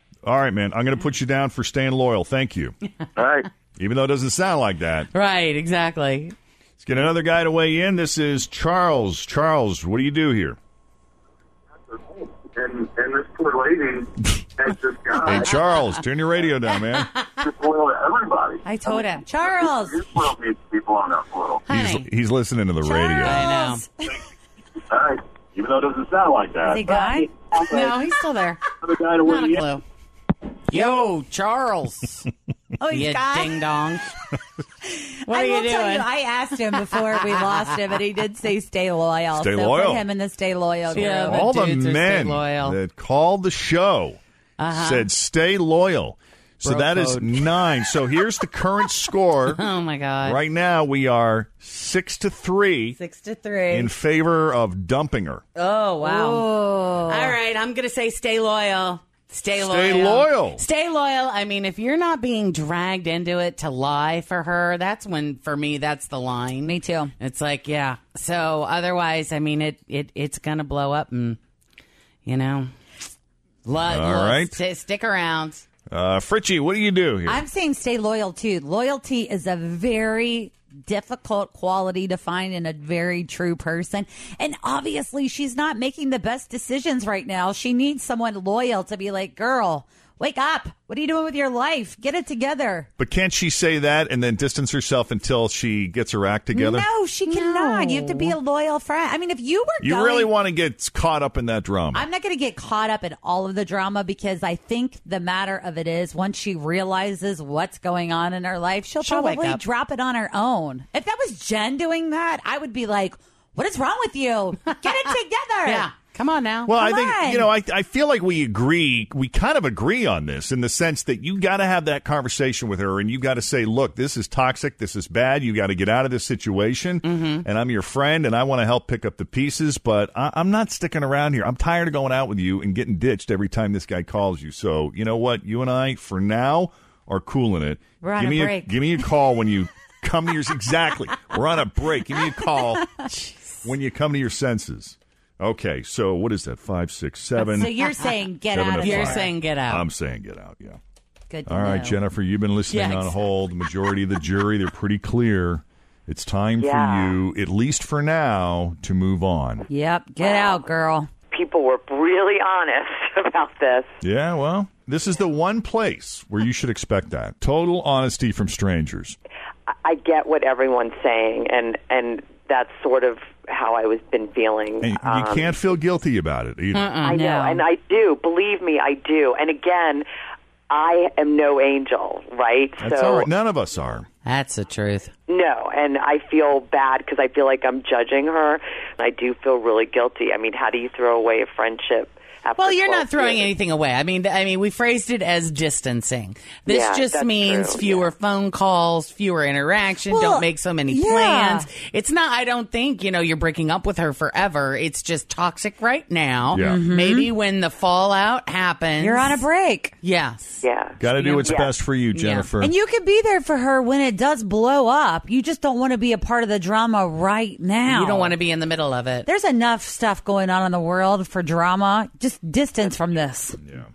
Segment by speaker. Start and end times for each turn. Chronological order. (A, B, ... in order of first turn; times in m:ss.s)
0:00.2-0:02.8 A
0:03.2-0:03.5 B
0:03.8-0:05.1 A
0:05.1-0:06.3 C
0:06.8-0:10.6 A
0:11.9-0:15.5 B
0:15.2-0:17.1 A
0:17.4-0:21.6 B
0:18.6-0:20.1 D
0:21.7-0:22.1 C
0:21.7-0:23.4 A
0:22.8-0:23.9 D
0:23.2-0:23.9 C
0:24.9-0:27.0 B
0:26.6-0:27.3 D
0:27.0-0:29.8 C
0:27.6-0:27.9 B
0:30.7-0:32.3 C
0:32.8-0:33.6 D
0:32.9-0:34.1 C
0:34.9-0:41.5 D
0:35.3-0:36.1 C
0:39.4-0:40.0 A
0:40.9-0:44.2 A
0:40.9-0:42.8 C
0:44.6-0:45.1 C
0:44.7-0:49.6 A
0:46.6-0:47.5 C
0:49.5-0:50.4 C
0:50.2-0:53.0 A
0:53.0-0:53.9 C
0:53.7-0:55.4 A
0:55.6-0:56.5 C
0:56.0-0:57.4 D
0:57.1-1:11.4 C
0:59.6-1:00.6 A
1:06.6-1:07.1 D
1:12.3-1:12.7 C
1:13.6-1:15.7 C
1:13.8-1:14.6 A
1:15.9-1:17.4 A
1:17.3-1:32.9 D
1:33.0-1:36.9 A
1:36.5-1:40.3 D
1:37.3-1:38.4 C
1:39.8-1:42.1 A
1:41.9-1:55.9 D
1:49.0-1:49.6 C
1:54.7-1:55.0 C
1:55.6-1:56.7 C
1:56.7-2:23.0 A
1:56.7-1:57.5 D
2:07.0-2:07.5 C
2:18.0-2:19.0 D
2:23.6-2:27.8 A
2:27.4-2:29.3 D
2:28.5-2:30.8 A
2:28.8-2:29.9 C
2:31.3-2:32.0 D
2:31.5-2:39.7 A
2:32.7-2:33.1 C
2:36.6-2:37.2 E
2:39.7-2:41.1 D
2:40.2-2:40.6 E
2:41.3-2:44.0 E
2:44.0-2:49.2 A
2:49.7-2:55.5 E
2:54.8-2:56.9 A
2:56.7-2:57.2 C
2:57.0-3:00.1 E
2:57.1-2:57.6 D
3:00.7-3:03.3 E
3:02.8-3:04.1 A
3:04.2-3:05.1 C
3:05.3-3:13.5 E
3:12.6-3:29.4 C
3:16.7-3:18.1 E
3:20.1-3:21.7 D
3:26.5-3:26.8 A
3:26.6-3:27.3 D
3:29.0-3:29.9 D
3:30.0-3:31.5 C
3:30.6-3:31.7 E
3:31.0-3:32.7 A
3:32.1-3:32.5 C
3:32.6-3:38.3 D
3:37.9-3:39.3 C
3:39.3-3:43.6 D